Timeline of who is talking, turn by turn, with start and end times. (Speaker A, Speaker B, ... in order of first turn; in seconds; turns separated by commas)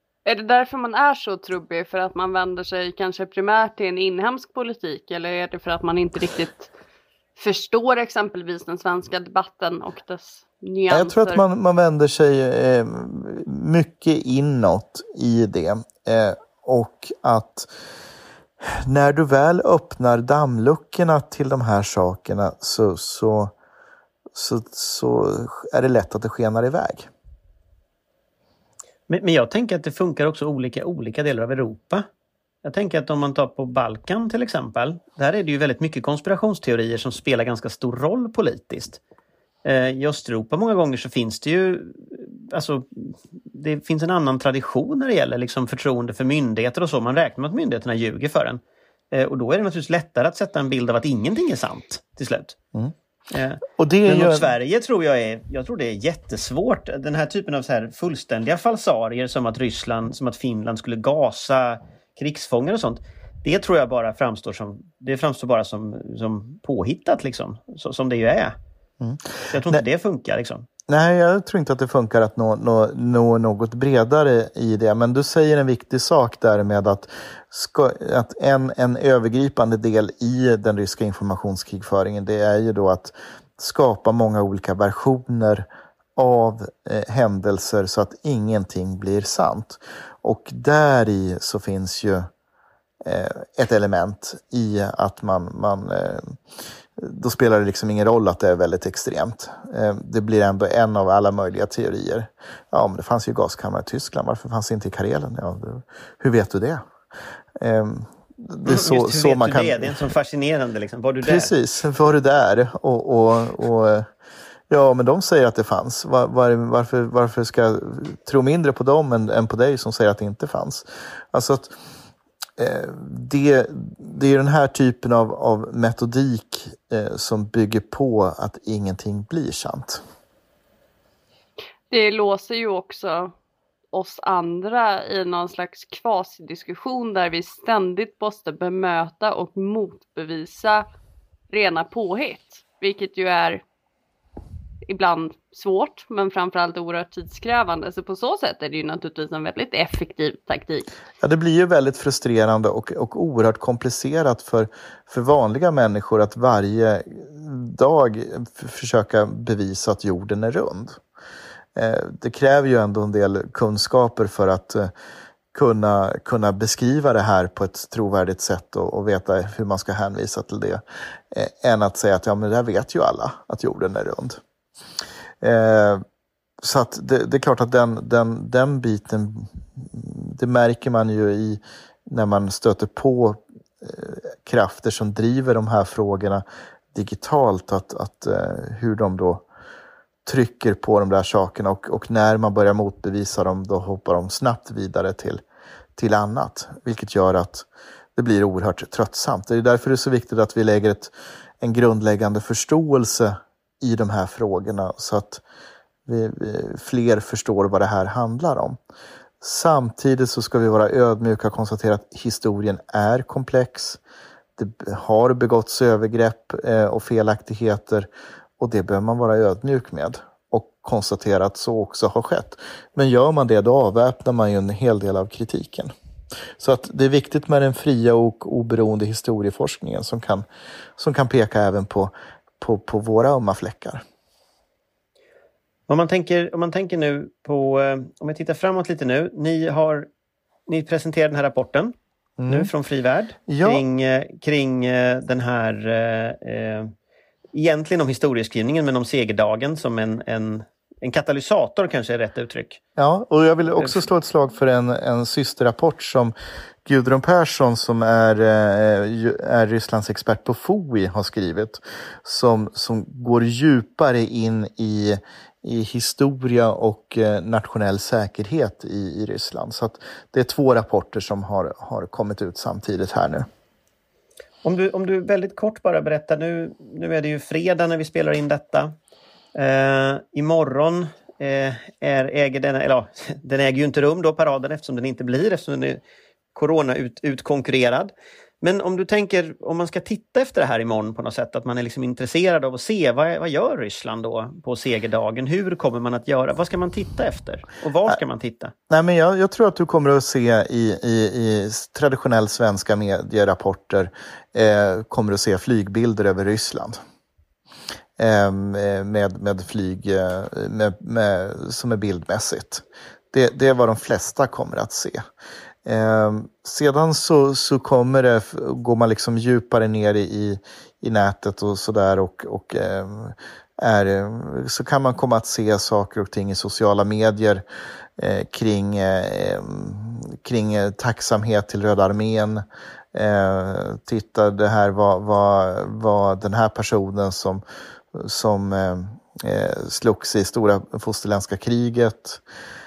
Speaker A: 0.2-6.7, Speaker A: 7.4-11.4, Speaker B: 10.9-17.7, Speaker B: 18.6-23.5, Speaker B: 24.3-27.1, Speaker C: 29.1-32.1, Speaker C: 32.6-39.0, Speaker C: 39.6-48.6, Speaker C: 49.1-52.6, Speaker C: 53.3-68.5, Speaker B: 53.7-54.5, Speaker B: 69.0-69.8, Speaker C: 69.5-70.7, Speaker B: 70.9-92.3, Speaker B: 93.0-96.3, Speaker B: 97.0-106.8, Speaker B: 107.6-110.0, Speaker C: 108.6-111.5, Speaker B: 111.2-114.1, Speaker B: 114.7-121.7, Speaker B: 122.6-130.0, Speaker A: 131.9-133.3, Speaker A: 133.9-140.8, Speaker A: 141.5-143.6, Speaker A: 144.8-150.9, Speaker B: 151.2-161.0, Speaker B: 161.8-164.9, Speaker B: 165.5-174.4, Speaker B: 175.4-176.0, Speaker B: 176.6-189.4, Speaker B: 190.2-195.4, Speaker B: 195.9-205.4, Speaker B: 206.1-208.8, Speaker B: 209.4-214.0, Speaker B: 214.6-225.9, Speaker B: 226.6-230.4, Speaker B: 231.0-234.0, Speaker C: 235.9-240.1, Speaker C: 240.7-241.9, Speaker B: 242.4-242.7, Speaker C: 242.5-246.9, Speaker B: 243.5-243.8, Speaker C: 247.5-252.8, Speaker B: 253.0-256.3, Speaker C: 253.8-254.0, Speaker B: 256.9-273.5, Speaker C: 274.6-278.9, Speaker C: 279.5-286.0, Speaker C: 286.5-298.7, Speaker B: 298.9-307.0, Speaker B: 308.2-315.2, Speaker B: 315.8-327.6, Speaker B: 328.2-337.6, Speaker B: 338.1-342.4